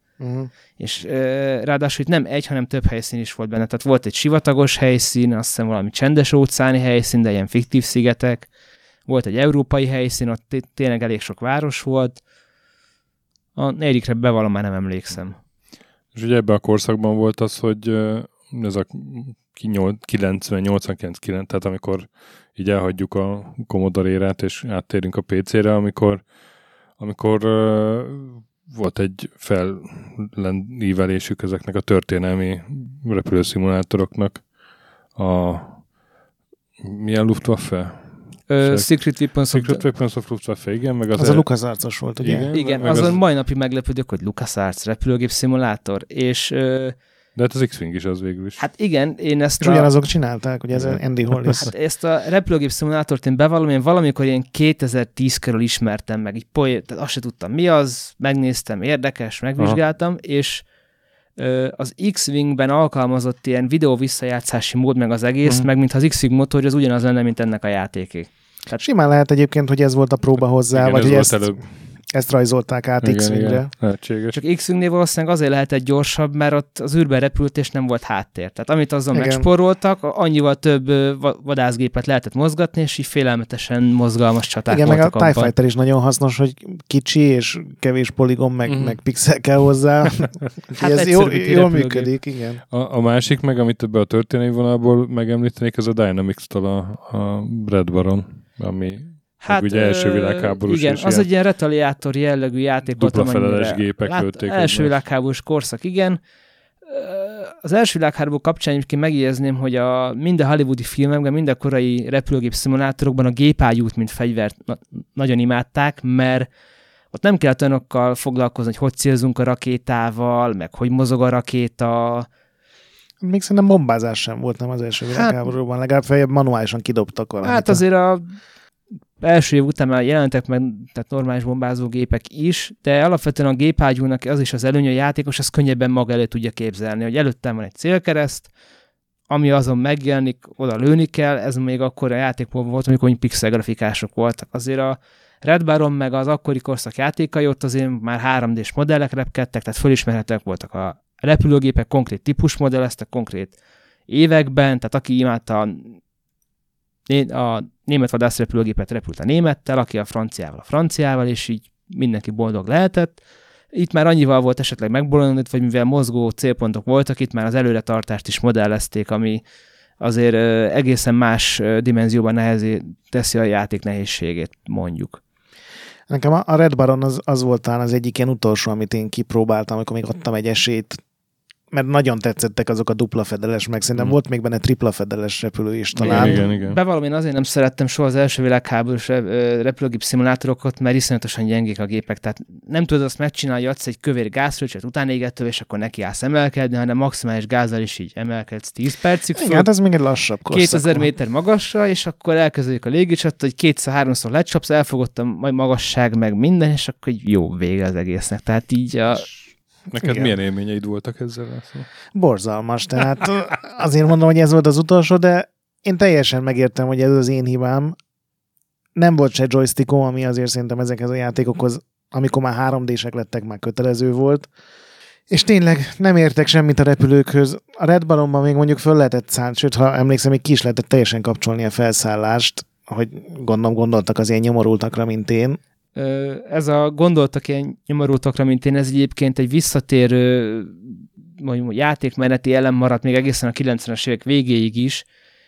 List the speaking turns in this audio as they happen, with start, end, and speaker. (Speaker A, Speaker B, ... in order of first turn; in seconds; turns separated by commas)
Speaker A: 0.2-0.5, Speaker B: 0.8-8.5, Speaker B: 9.1-12.2, Speaker B: 13.6-15.3, Speaker C: 16.1-26.2, Speaker C: 27.0-34.4, Speaker C: 35.1-35.8, Speaker C: 36.8-41.5, Speaker B: 38.5-39.8, Speaker A: 41.1-42.5, Speaker C: 42.2-43.2, Speaker B: 42.5-46.9, Speaker C: 47.4-48.6, Speaker B: 48.6-49.9, Speaker A: 49.6-51.7, Speaker C: 50.8-51.5, Speaker B: 51.6-60.6, Speaker B: 61.4-68.8, Speaker A: 68.8-71.6, Speaker C: 70.7-71.6, Speaker A: 72.1-73.7, Speaker C: 73.0-74.4, Speaker B: 74.3-85.5, Speaker A: 79.1-79.5, Speaker A: 84.7-92.6, Speaker C: 88.7-88.9, Speaker B: 90.8-92.1, Speaker C: 92.7-101.3, Speaker B: 99.4-106.2, Speaker C: 103.0-105.0, Speaker B: 106.8-116.5, Speaker B: 117.1-122.3, Speaker A: 123.2-127.8, Speaker B: 125.1-125.4, Speaker B: 127.4-128.2, Speaker B: 129.2-138.5, Speaker B: 139.3-153.5, Speaker B: 154.1-156.0, Speaker B: 157.1-163.2, Speaker B: 163.7-169.4, Speaker B: 170.0-175.2, Speaker A: 176.1-181.0, Speaker A: 181.7-186.4, Speaker C: 186.0-186.8, Speaker B: 186.0-199.7, Speaker A: 199.3-201.1, Speaker B: 200.5-209.3, Speaker C: 209.9-211.9, Speaker A: 210.0-210.3, Speaker A: 212.1-217.9, Speaker A: 218.9-224.5, Speaker A: 225.3-235.6, Speaker B: 235.9-245.0